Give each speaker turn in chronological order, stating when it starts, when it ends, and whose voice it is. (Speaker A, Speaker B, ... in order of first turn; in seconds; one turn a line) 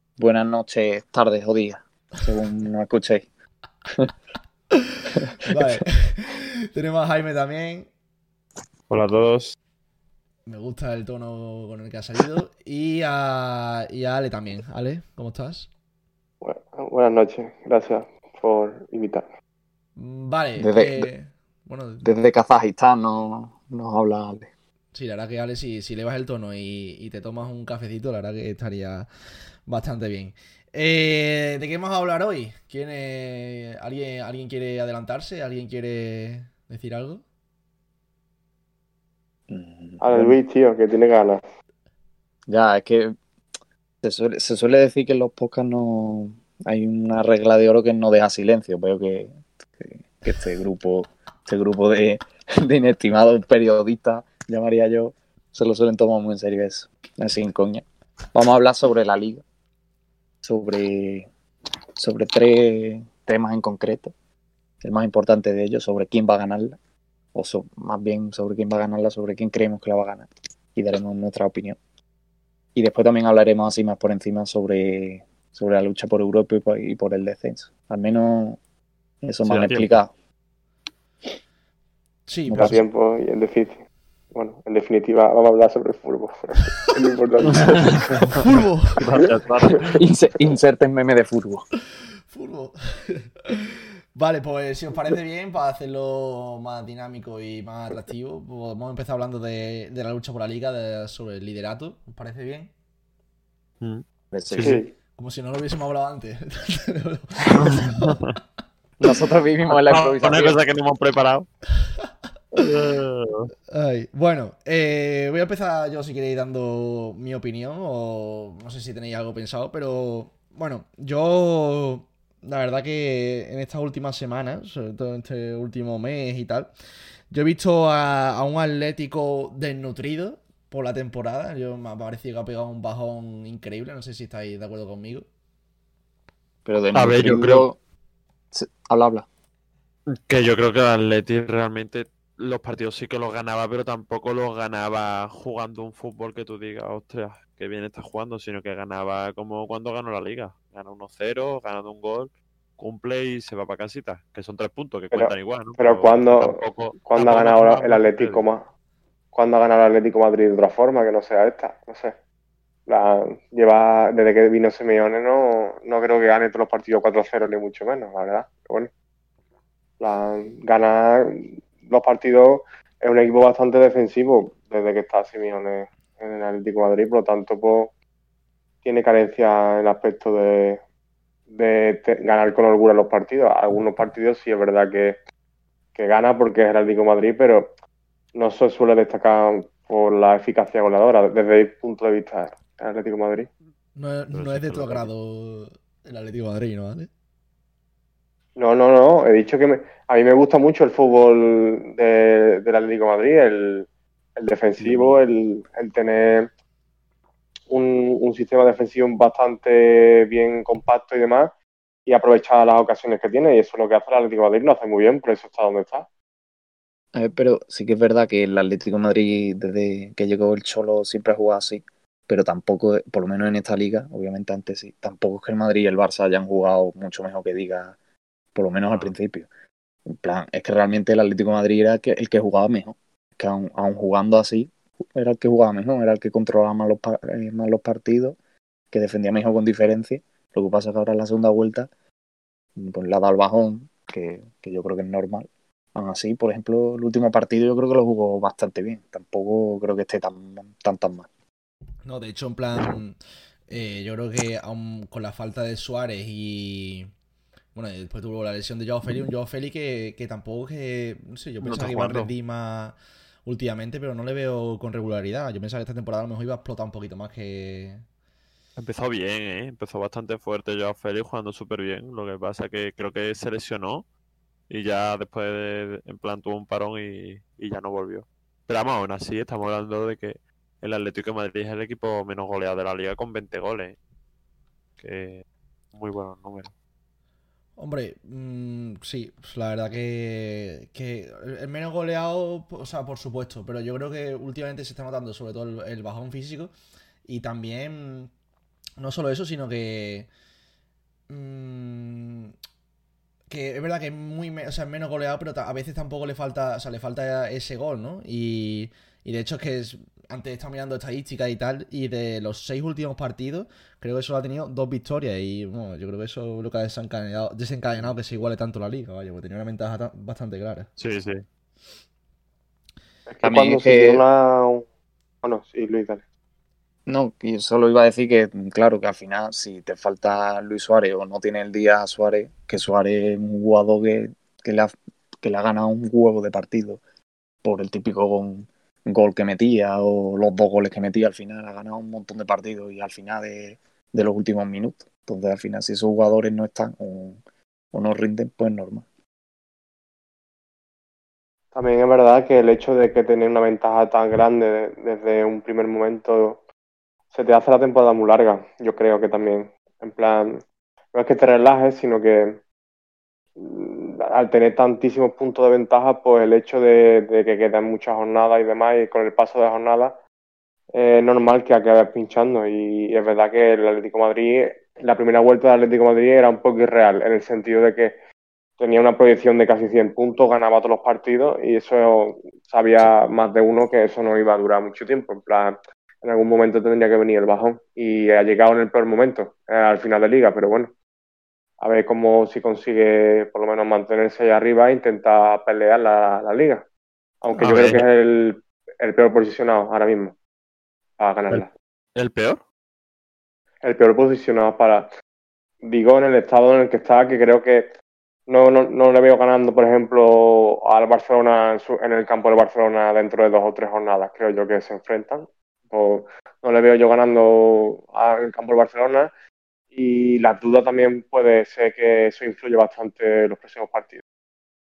Speaker A: 0.2-3.2
Speaker B: 4.7-7.9
Speaker A: 5.2-5.8
Speaker C: 8.9-9.6
Speaker B: 10.4-15.7
Speaker D: 16.4-19.3
Speaker B: 19.9-22.1
Speaker A: 20.6-21.1
Speaker A: 22.0-24.5
Speaker B: 24.9-37.2
Speaker A: 39.5-40.4
Speaker D: 40.0-41.4
Speaker A: 42.5-43.1
Speaker A: 44.0-59.4
Speaker A: 60.4-61.3
Speaker A: 62.0-64.1
Speaker A: 64.8-66.8
Speaker A: 67.3-71.8
Speaker A: 72.7-78.6
Speaker A: 79.2-80.1
Speaker C: 79.4-80.0
Speaker B: 82.3-82.8
Speaker A: 82.5-82.8
Speaker D: 82.6-88.4
Speaker C: 87.5-88.4
Speaker B: 88.2-89.0
Speaker C: 89.0-90.0
Speaker A: 89.9-91.6
Speaker B: 91.9-102.7
Speaker C: 103.8-104.8
Speaker A: 104.3-104.8
Speaker D: 104.6-104.9
Speaker B: 105.2-108.2
Speaker C: 107.6-108.3
Speaker A: 109.0-110.6
Speaker C: 109.7-111.5
Speaker B: 111.8-112.1
Speaker C: 112.5-113.5
Speaker B: 113.7-126.7
Speaker B: 127.3-135.2
Speaker A: 136.6-137.8
Speaker C: 136.9-137.7
Speaker A: 138.5-139.3
Speaker C: 140.1-157.4
Speaker D: 155.1-158.7
Speaker B: 157.2-158.4
Speaker D: 159.3-162.1
Speaker D: 162.9-168.9
Speaker D: 170.0-177.9
Speaker D: 178.8-180.8
Speaker D: 181.5-185.2
Speaker D: 185.9-187.7
Speaker D: 188.3-193.5
Speaker B: 193.9-197.1
Speaker C: 194.3-195.1
Speaker D: 198.6-206.5
Speaker C: 204.8-205.1
Speaker D: 207.7-211.5
Speaker D: 212.1-216.1
Speaker A: 217.1-227.9
Speaker A: 228.5-229.5
Speaker A: 230.1-238.4
Speaker A: 238.9-241.9
Speaker A: 242.8-251.3
Speaker B: 252.0-253.2
Speaker B: 253.7-257.1
Speaker B: 257.7-262.9
Speaker C: 261.6-262.3
Speaker B: 263.4-268.0
Speaker C: 268.8-274.1
Speaker C: 274.7-284.0
Speaker C: 285.0-286.7
Speaker B: 287.8-296.7
Speaker B: 297.2-298.3
Speaker B: 299.0-300.3
Speaker B: 301.3-302.5
Speaker B: 303.5-320.9
Speaker C: 321.0-321.4
Speaker D: 323.3-324.9
Speaker A: 323.4-324.2
Speaker D: 325.4-326.2
Speaker A: 327.1-337.0
Speaker A: 337.6-347.4
Speaker A: 347.9-349.0
Speaker D: 351.7-356.6
Speaker D: 357.3-360.6
Speaker D: 361.1-362.6
Speaker D: 363.6-370.2
Speaker D: 370.9-378.1
Speaker D: 378.8-390.9
Speaker D: 391.8-396.9
Speaker D: 397.4-400.3
Speaker C: 397.6-398.0
Speaker D: 401.2-401.7
Speaker C: 401.5-402.6
Speaker D: 403.8-405.1
Speaker D: 405.8-407.9
Speaker D: 408.5-419.3
Speaker D: 419.9-424.2